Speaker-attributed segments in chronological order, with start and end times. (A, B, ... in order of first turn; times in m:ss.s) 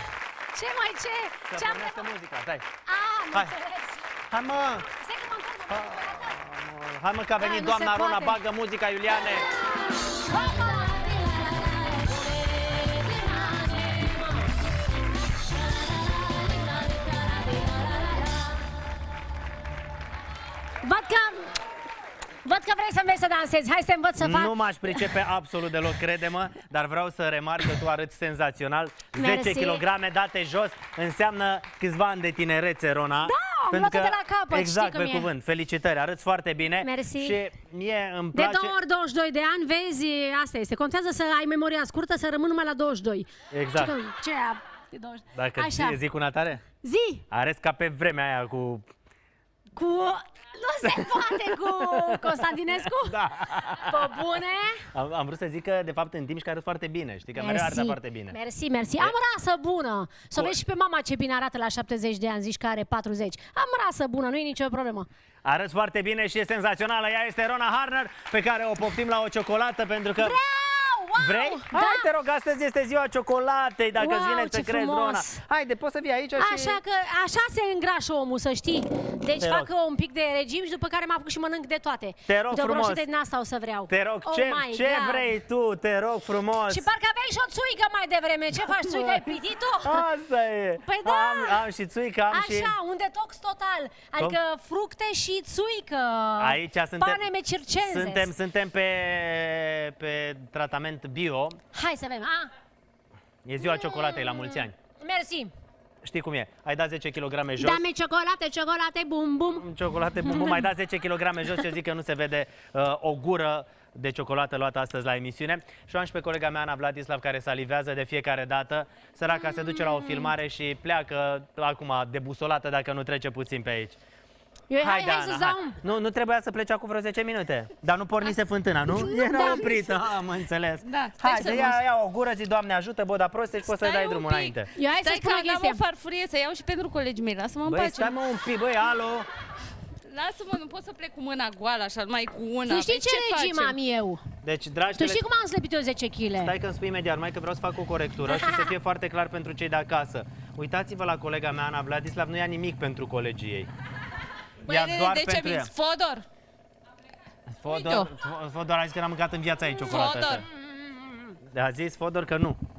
0:00.5-0:02.1 A
0:01.5-0:02.6 B
0:02.8-0:04.1 A
0:04.3-0:04.9 B
0:04.9-0:06.4 A
0:05.7-0:09.5 B
0:07.4-0:08.4 A
0:09.3-0:18.6 A
0:20.8-0:21.5 A
0:22.4-0:25.0 A
0:24.2-0:38.7 B
0:29.2-0:29.8 A
0:33.2-0:35.3 A
0:36.8-0:37.4 A
0:38.3-0:46.0 A
0:43.5-0:44.0 B
0:45.4-0:46.6 B
0:46.8-0:47.2 A
0:47.3-0:48.9 B
0:49.7-0:54.8 A
0:50.8-0:54.2 B
0:54.9-0:58.4 B
0:57.4-1:05.1 A
1:05.4-1:10.4 B
1:10.2-1:12.1 A
1:11.2-1:16.8 B
1:14.0-1:15.4 A
1:16.4-1:25.4 A
1:19.4-1:19.7 B
1:22.3-1:23.0 B
1:23.9-1:26.9 B
1:26.7-1:30.0 A
1:28.6-1:32.7 B
1:30.8-1:31.7 A
1:32.3-1:38.3 A
1:36.4-1:37.2 B
1:37.8-1:41.6 B
1:41.7-1:42.5 A
1:43.4-1:44.7 B
1:43.6-1:45.5 A
1:46.0-1:47.8 B
1:47.6-1:49.7 A
1:49.5-2:04.0 B
1:50.2-1:50.6 A
1:59.3-2:00.3 A
2:04.7-2:05.8 A
2:04.8-2:14.7 B
2:08.9-2:09.9 A
2:10.9-2:11.8 C
2:13.6-2:18.1 C
2:14.7-2:15.8 A
2:17.6-2:19.3 B
2:20.0-2:23.8 C
2:22.7-2:24.2 A
2:24.4-2:25.2 B
2:25.0-2:26.5 A
2:26.4-2:33.7 B
2:28.3-2:28.7 A
2:34.7-2:35.7 B
2:34.7-2:36.2 C
2:37.5-2:40.5 B
2:37.7-2:38.1 C
2:39.8-2:40.4 C
2:40.5-2:41.4 A
2:41.5-2:42.6 B